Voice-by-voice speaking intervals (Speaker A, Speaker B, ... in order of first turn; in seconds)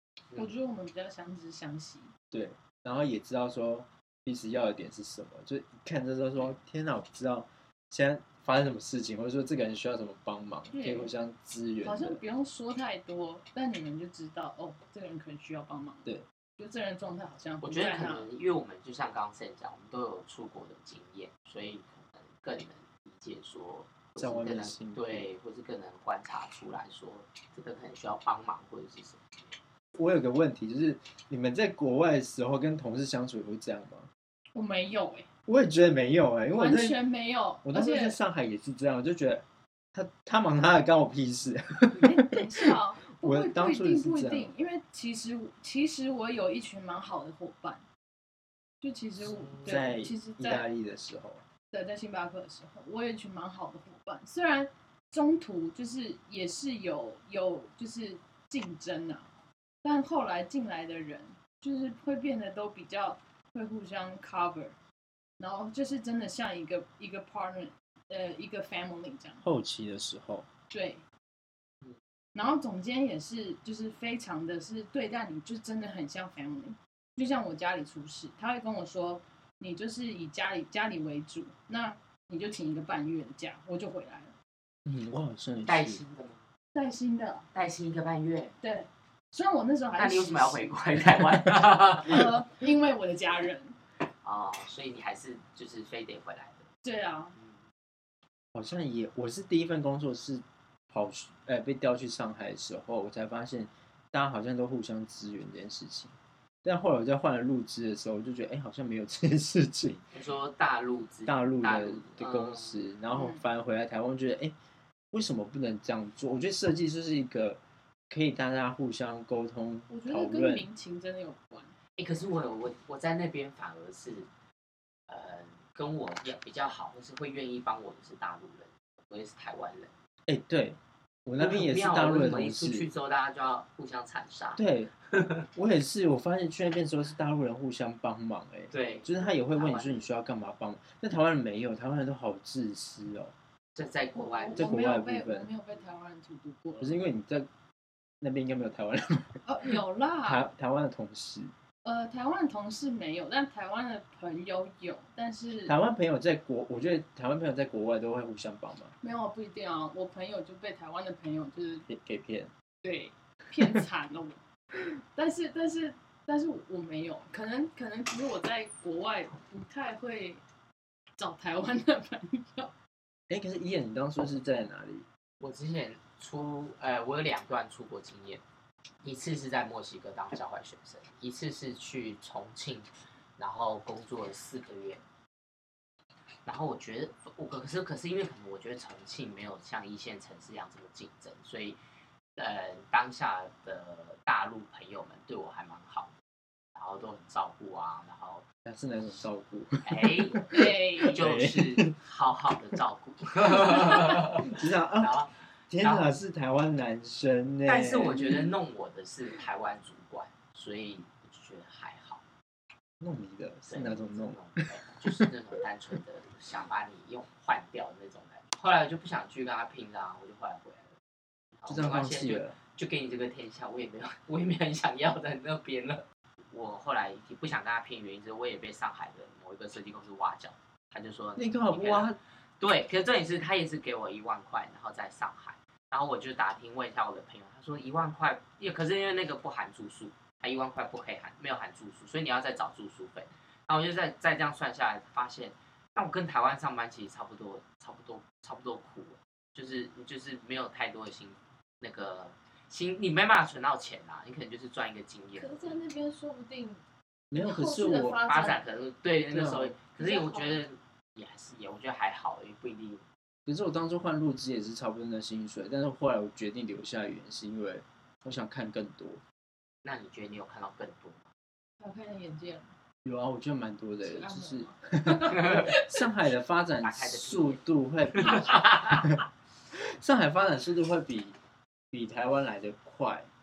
Speaker A: 0.3-2.1, 10.7-11.1, 11.8-18.3, 34.5-35.3, 36.5-38.2, 42.0-47.8, 48.8-50.7, 51.7-59.3, 59.8-64.8, 65.4-69.4, 70.7-71.0, 72.3-84.3, 86.7-87.5, 88.6-90.7, 92.0-93.8, 96.8-97.3, 113.1-113.4, 119.9-121.7, 144.1-147.0, 149.4-150.5, 151.8-155.7, 159.0-161.9, 162.8-164.4, 165.1-170.4, 171.2-172.7, 200.5-201.2, 255.3-256.8, 257.3-258.6, 259.9-260.6, 271.8-272.7, 274.0-276.0
Speaker B: 2.3-12.2, 24.2-25.3, 30.0-34.1, 35.5-37.0, 37.6-44.5, 49.6-51.4, 69.4-70.5, 84.8-86.0, 98.5-110.1, 111.2-114.5, 115.1-120.7, 130.3-132.9, 134.6-134.9, 135.5-143.3, 144.5-145.5, 146.8-147.5, 148.2-151.5, 155.7-158.9, 161.9-162.5, 173.3-175.1, 198.6-201.9, 204.4-205.1, 205.7-208.4, 213.0-214.6, 221.7-222.6, 231.4-232.2, 257.3-258.2, 259.3-259.7, 263.4-269.2, 273.0-279.2, 279.8-281.4, 281.9-283.3
Speaker C: 17.6-29.2, 49.2-49.8, 85.6-86.5, 87.5-88.5, 89.9-92.2, 94.2-96.7, 97.3-97.6, 110.1-112.8, 122.0-124.3, 125.1-129.9, 131.4-135.4, 138.7-140.1, 143.7-144.6, 175.4-178.4, 179.0-185.0, 186.4-191.8, 192.3-196.1, 196.7-198.4, 199.8-200.4, 201.1-206.1, 207.6-212.2, 213.7-220.9, 221.6-255.8, 258.2-263.1, 269.8-271.3, 276.8-277.6, 278.3-278.7